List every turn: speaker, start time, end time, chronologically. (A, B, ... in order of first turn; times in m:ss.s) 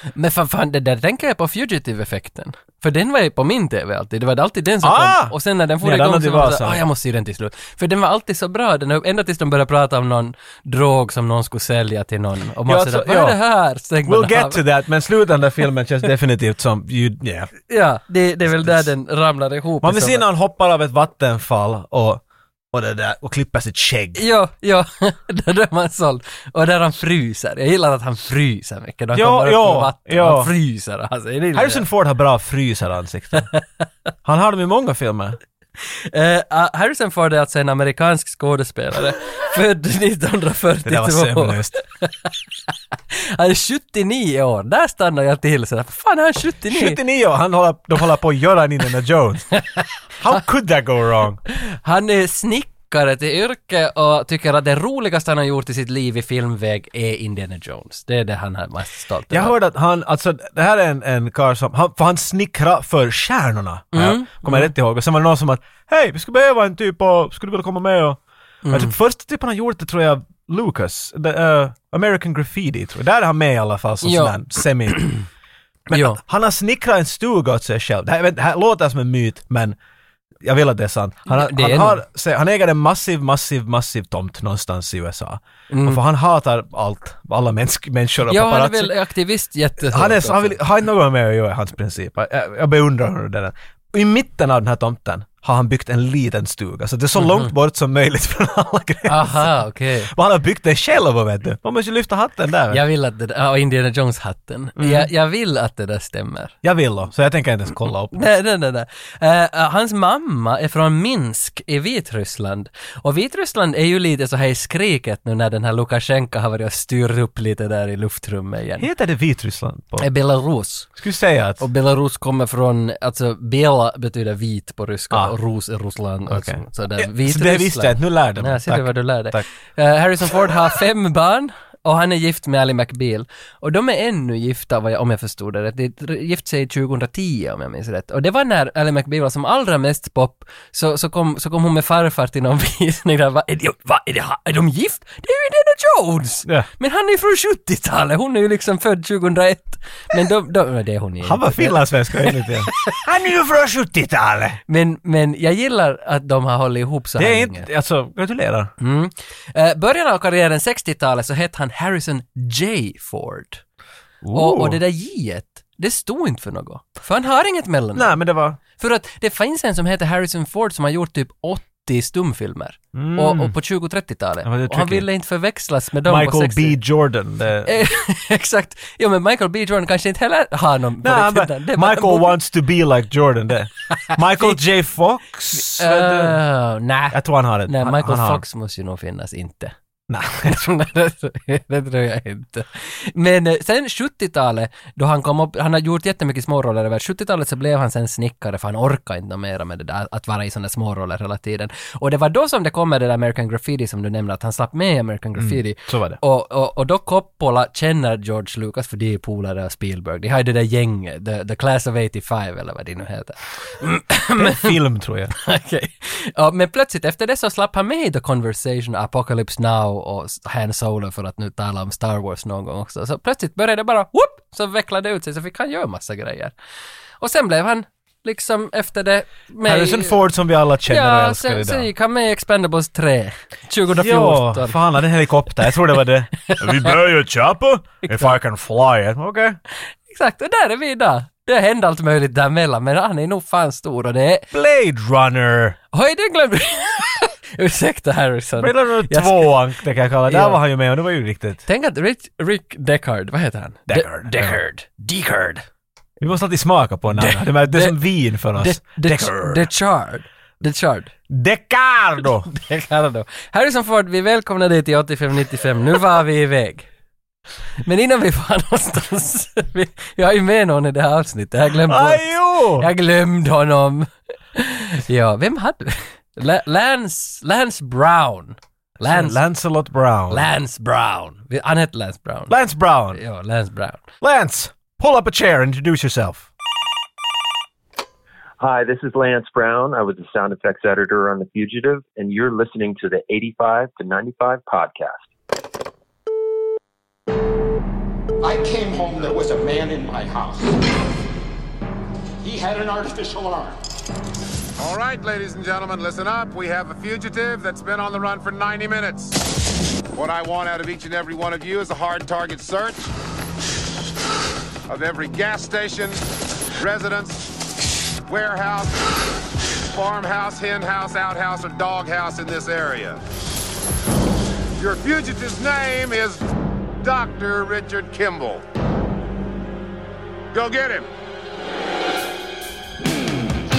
0:00.1-0:14.6 A
0:04.8-0:06.8 B
0:12.6-0:13.4 B
0:14.0-0:17.5 B
0:17.7-0:20.2 A
0:18.4-0:18.9 B
0:19.8-0:24.2 B
0:24.2-0:31.8 A
0:29.1-0:30.5 B
0:31.5-0:33.5 B
0:34.2-0:35.4 B
0:35.8-0:42.3 A
0:40.8-0:41.8 B
0:43.1-0:47.0 A
0:46.7-0:49.5 B
0:50.2-0:51.4 B
0:51.5-0:59.5 A
0:59.3-1:08.2 B
1:03.9-1:04.7 A
1:08.6-1:08.9 A
1:08.7-1:15.1 B
1:14.0-1:14.4 A
1:14.9-1:15.2 A
1:15.9-1:19.8 B
1:15.9-1:16.2 A
1:20.4-1:28.9 B
1:21.3-1:22.0 A
1:25.7-1:26.0 A
1:28.3-1:30.6 A
1:29.8-1:42.8 B
1:37.2-1:37.5 A
1:39.0-1:40.1 A
1:42.7-1:46.5 A
1:44.8-1:45.1 B
1:46.6-1:48.2 B
1:48.1-1:58.9 A
1:58.8-2:00.1 B
2:00.0-2:00.9 A
2:01.0-2:01.6 B
2:01.6-2:32.9 A
2:06.3-2:09.4 B
2:31.2-2:34.6 B
2:34.7-2:37.7 A
2:37.2-2:38.7 B
2:38.8-2:43.6 A
2:44.2-2:44.8 B
2:44.3-2:48.1 A
2:47.9-2:48.6 B
2:48.8-2:56.8 A
2:52.9-2:53.5 B
2:54.4-2:55.0 B
2:56.0-2:57.7 B
2:57.6-3:02.4 A
3:01.0-3:06.4 B
3:03.9-3:04.6 A
3:05.5-3:09.7 A
3:07.1-3:08.4 B
3:10.1-3:10.6 B
3:10.4-3:34.7 A
3:25.4-3:26.2 B
3:34.4-3:35.3 B
3:35.3-3:46.5 A
3:47.2-3:50.2 A
3:49.6-3:51.9 B
3:50.8-3:54.8 A
3:53.9-3:59.6 B
3:56.4-3:57.0 A
3:58.0-3:58.3 A
4:00.1-4:04.5 A
4:04.5-4:05.8 B
4:05.9-4:09.5 A
4:08.6-4:11.6 B
4:10.3-4:10.6 A
4:11.6-4:15.6 A
4:13.9-4:14.6 B
4:16.2-4:19.6 B
4:17.2-4:18.0 A
4:18.6-4:21.1 A
4:21.3-4:22.5 B
4:22.5-4:26.9 A
4:27.8-4:39.4 A
4:31.8-4:32.9 B
4:39.0-4:40.5 B
4:40.3-4:42.5 A
4:42.5-4:43.2 B
4:43.1-4:44.0 A
4:44.2-4:46.5 B
4:48.6-4:55.2 C
4:58.4-5:00.8 D
5:02.4-5:03.8 D
5:04.8-5:09.5 E
5:10.1-5:13.1 E
5:14.9-5:16.2 E
5:16.8-5:17.5 E
5:18.2-5:19.1 E
5:19.8-5:23.2 E
5:24.8-5:28.6 E
5:30.5-5:31.1 E